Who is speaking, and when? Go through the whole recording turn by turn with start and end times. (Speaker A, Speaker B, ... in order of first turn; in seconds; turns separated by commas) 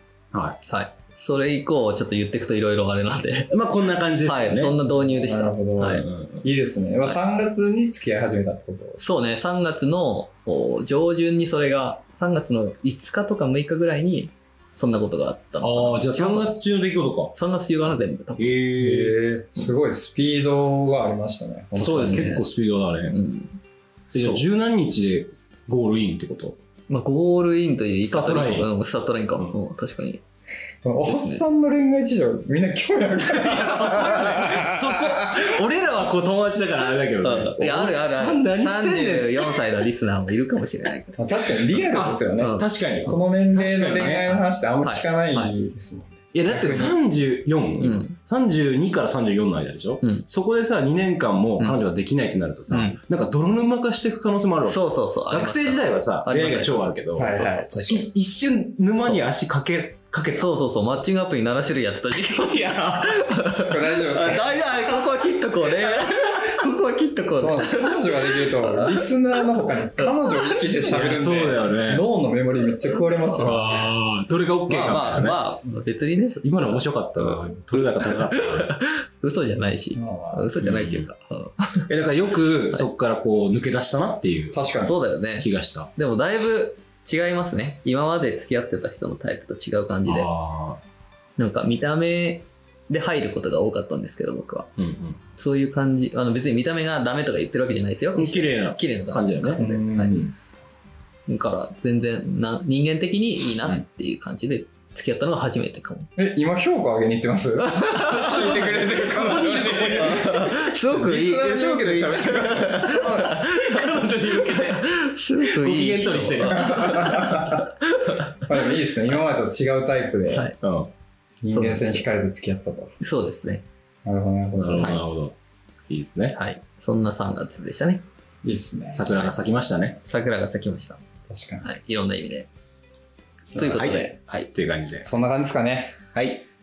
Speaker A: 0.3-0.6, Speaker B: 0.7-3.5, Speaker A: 3.5-4.8, Speaker B: 4.2-6.0, Speaker C: 5.0-9.0, Speaker A: 5.9-6.5, Speaker B: 9.0-16.5, Speaker A: 15.6-17.3, Speaker B: 17.3-18.6, Speaker A: 18.4-19.2, Speaker C: 18.8-22.4, Speaker A: 21.7-23.2, Speaker B: 21.8-22.4, Speaker B: 23.1-23.6, Speaker B: 24.1-24.4, Speaker A: 24.1-26.6, Speaker B: 26.9-30.2, Speaker A: 28.0-28.7, Speaker C: 30.8-35.4, Speaker B: 31.0-31.4, Speaker A: 33.3-39.9, Speaker B: 37.2-41.2, Speaker C: 41.2-47.0, Speaker A: 41.9-44.3, Speaker B: 42.4-42.7, Speaker B: 44.0-45.5, Speaker A: 46.3-60.5, Speaker B: 47.8-48.2, Speaker B: 50.0-50.3, Speaker B: 52.7-53.0, Speaker B: 54.6-58.1, Speaker C: 57.1-58.1, Speaker B: 60.3-69.1, Speaker A: 62.4-63.2, Speaker C: 63.6-64.7, Speaker C: 67.4-73.8, Speaker B: 70.0-70.6, Speaker A: 70.8-72.1, Speaker B: 72.9-73.6, Speaker A: 73.3-75.4, Speaker B: 74.7-77.4, Speaker A: 76.3-78.7, Speaker B: 78.0-81.9, Speaker C: 80.0-80.5, Speaker A: 80.6-81.1, Speaker A: 81.9-84.6, Speaker C: 84.5-85.0, Speaker B: 84.8-90.3, Speaker A: 85.4-85.9, Speaker A: 90.1-90.8, Speaker B: 91.4-94.7, Speaker A: 94.8-95.2, Speaker B: 95.4-100.2, Speaker A: 98.2-100.3, Speaker C: 99.6-100.3, Speaker B: 101.3-106.1, Speaker C: 106.2-113.4, Speaker B: 107.6-108.6, Speaker A: 108.0-110.8, Speaker B: 110.0-118.4, Speaker A: 113.0-117.2, Speaker C: 116.5-117.7, Speaker C: 118.5-120.5, Speaker B: 120.3-120.6, Speaker A: 120.6-120.9, Speaker C: 121.4-123.0, Speaker B: 121.5-122.1, Speaker B: 123.0-123.7, Speaker C: 124.0-125.0, Speaker A: 124.6-125.4, Speaker B: 124.8-125.0, Speaker A: 125.9-126.3, Speaker B: 126.3-128.0, Speaker C: 128.4-129.1, Speaker A: 128.9-130.0, Speaker B: 130.0-131.0, Speaker C: 131.3-131.7, Speaker B: 131.6-132.5, Speaker C: 133.5-133.9, Speaker B: 133.5-134.5, Speaker A: 133.7-135.1, Speaker C: 135.0-136.0, Speaker A: 136.2-136.4